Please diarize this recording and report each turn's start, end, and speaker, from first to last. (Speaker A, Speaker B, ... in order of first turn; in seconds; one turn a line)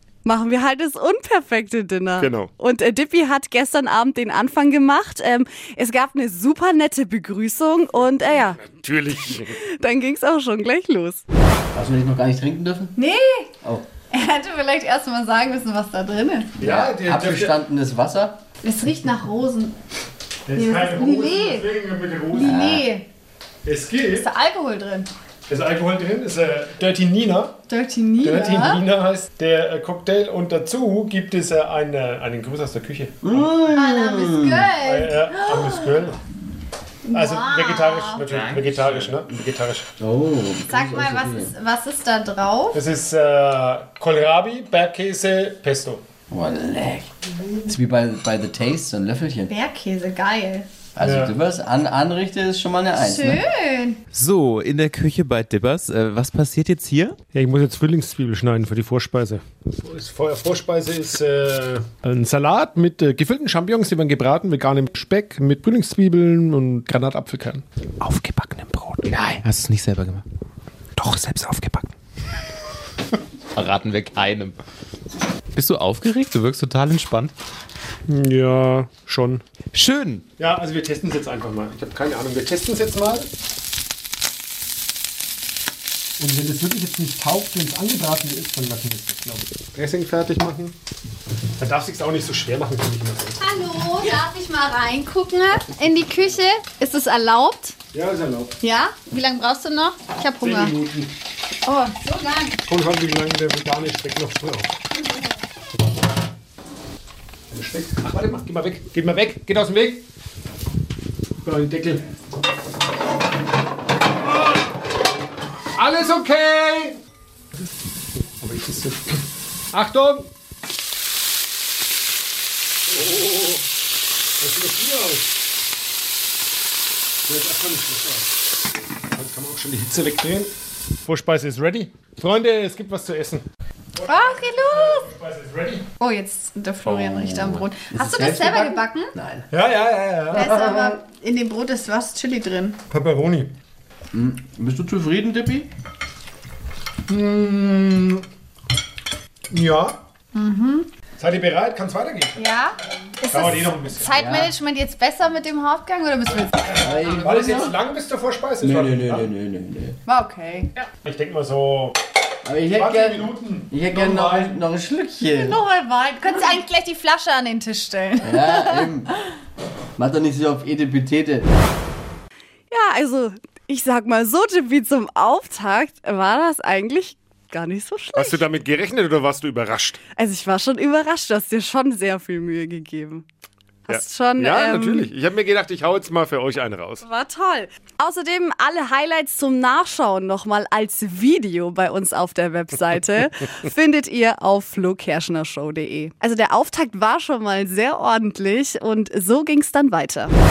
Speaker A: 0.2-8.7
Speaker B: 2.2-2.5
Speaker B: 8.6-9.6
Speaker A: 9.5-11.2
Speaker C: 11.7-12.9
Speaker D: 13.0-13.4
Speaker D: 14.1-16.6
Speaker C: 16.6-18.4
Speaker B: 16.6-17.6
Speaker D: 18.6-19.8
Speaker B: 20.5-22.6
Speaker D: 20.6-21.7
Speaker D: 22.3-23.1
Speaker C: 22.4-22.9
Speaker B: 23.6-24.3
Speaker D: 24.1-25.1
Speaker B: 25.5-27.6
Speaker D: 27.7-28.8
Speaker B: 28.2-33.5
Speaker C: 33.2-34.7
Speaker D: 33.7-36.0
Speaker B: 34.8-36.2
Speaker D: 37.0-38.2
Speaker B: 37.1-39.9
Speaker E: 38.2-39.1
Speaker C: 40.0-41.5
Speaker D: 40.6-42.8
Speaker B: 42.7-46.0
Speaker C: 46.3-47.1
Speaker C: 47.6-49.5
Speaker D: 49.5-50.7
Speaker C: 51.0-53.4
Speaker B: 51.0-51.4
Speaker D: 52.9-54.0
Speaker E: 54.1-57.2
Speaker B: 57.3-67.6
Speaker E: 68.0-70.2
Speaker E: 71.0-71.8
Speaker E: 73.5-74.6
Speaker E: 75.5-77.3
Speaker B: 78.1-79.4
Speaker E: 79.7-80.2
Speaker B: 80.4-83.3
Speaker B: 86.2-90.8
Speaker B: 91.6-93.4
Speaker A: 93.4-94.9
Speaker D: 93.6-95.7
Speaker A: 95.5-97.7
Speaker B: 97.9-98.5
Speaker D: 98.6-100.7
Speaker B: 100.4-101.1
Speaker D: 101.7-102.6
Speaker B: 102.7-104.8
Speaker B: 107.5-110.0
Speaker B: 111.4-112.0
Speaker B: 115.8-117.0
Speaker B: 118.4-120.3
Speaker B: 122.9-123.6
Speaker B: 124.4-125.2
Speaker B: 127.2-128.3
Speaker B: 129.1-130.5
Speaker B: 131.0-133.4
Speaker B: 133.9-135.8
Speaker D: 134.1-135.1
Speaker D: 136.0-139.1
Speaker E: 137.1-137.4
Speaker C: 137.9-139.5
Speaker B: 139.5-140.5
Speaker D: 140.3-142.8
Speaker C: 140.3-140.9
Speaker B: 142.9-143.5
Speaker C: 144.1-145.7
Speaker B: 147.1-148.2
Speaker B: 149.5-150.0
Speaker D: 150.3-150.9
Speaker B: 151.2-152.4
Speaker D: 152.4-157.1
Speaker B: 153.3-154.2
Speaker C: 154.1-154.5
Speaker C: 156.8-157.8
Speaker B: 156.9-159.3
Speaker C: 158.6-160.0
Speaker D: 160.1-160.7
Speaker B: 160.8-162.0
Speaker C: 162.4-165.6
Speaker B: 162.6-164.6
Speaker D: 165.3-168.9
Speaker C: 168.2-169.1
Speaker C: 170.0-171.5
Speaker A: 172.7-178.4
Speaker B: 178.2-180.0
Speaker A: 180.2-183.2
Speaker A: 183.9-185.1
Speaker B: 183.9-187.0
Speaker A: 187.0-200.3